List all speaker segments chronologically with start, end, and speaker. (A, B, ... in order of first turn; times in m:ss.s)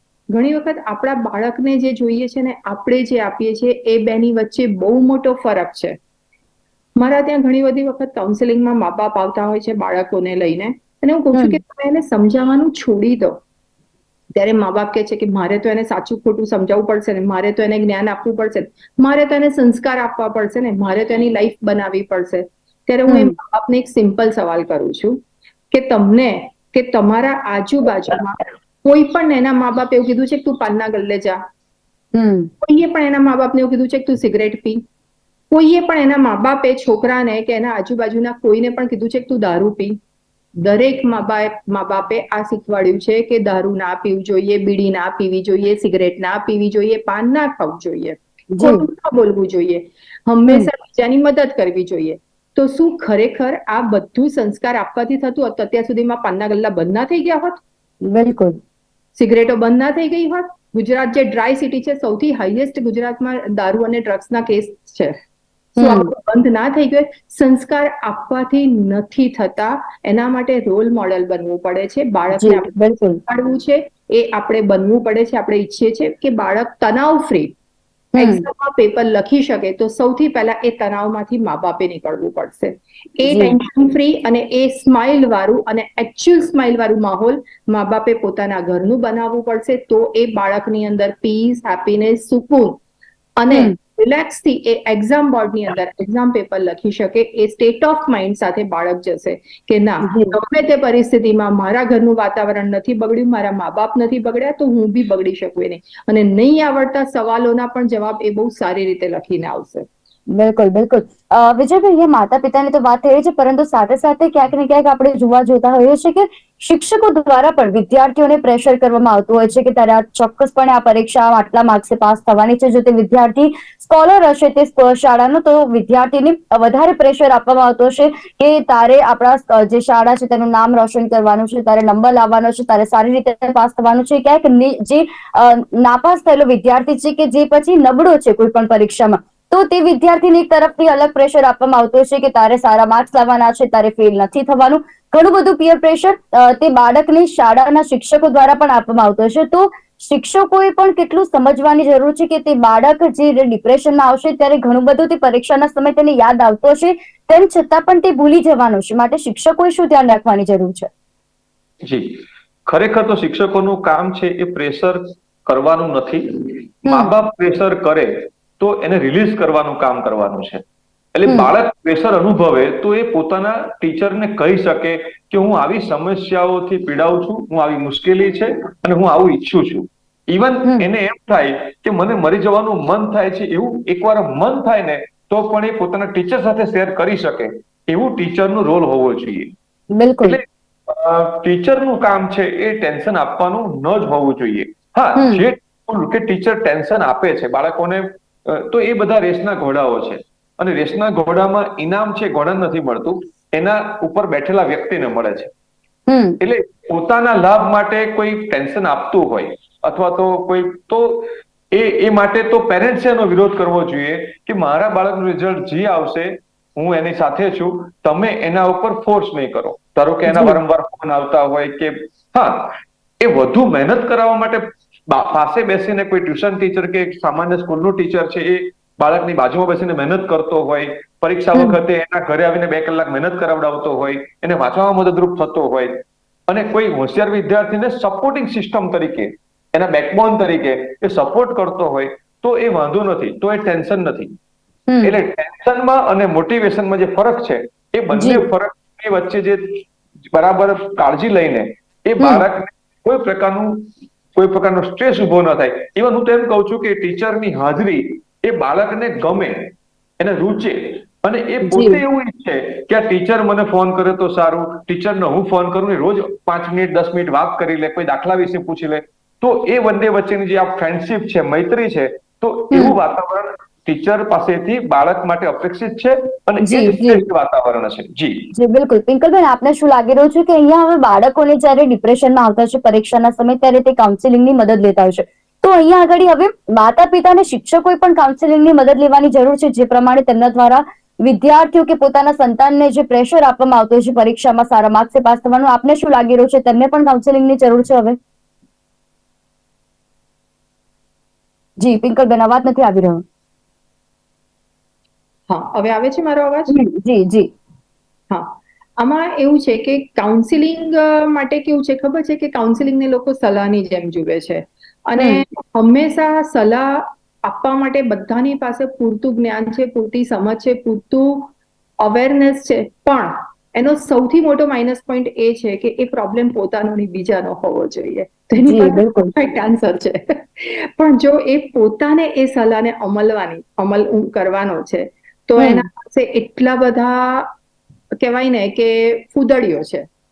0:00.3-0:06.0 A
0:07.0-0:13.4 A
0:11.4-0:11.6 B
0:14.3-0:25.2 A
0:23.1-0:23.4 B
0:25.7-0:31.4 A
0:32.2-0:32.5 B
0:32.6-0:34.8 A
0:35.5-0:40.0 A
0:40.6-0:57.6 A
0:48.5-0:48.8 B
0:58.1-0:58.6 B
0:59.2-1:05.2 A
1:05.8-1:12.8 A
1:05.8-1:06.1 B
1:12.4-1:13.2 B
1:13.3-1:17.5 A
1:18.2-1:18.4 B
1:18.2-1:32.8 A
1:23.3-1:23.6 B
1:33.4-1:49.9 A
1:33.5-1:33.8 B
1:40.0-1:40.4 B
1:50.4-2:40.9 B
2:41.8-2:50.6 C
2:51.2-3:09.5 C
3:10.0-3:10.4 B
3:10.2-3:25.5 C
3:15.2-3:15.5 B
3:26.1-3:26.4 B
3:26.4-4:04.3 C
3:40.3-3:40.6 B
4:04.9-4:05.2 B
4:05.0-4:38.5 C
4:08.1-4:08.4 B
4:21.7-4:22.0 B
4:32.7-4:33.0 B
4:36.6-4:37.2 B
4:38.5-4:58.2 B
5:01.8-5:03.2 B
5:05.5-5:06.7 A
5:06.7-5:07.5 B
5:08.3-5:21.5 A
5:15.2-5:15.4 B
5:22.0-5:37.5 A
5:28.6-5:29.3 B
5:35.6-5:35.9 B
5:38.2-5:40.0 A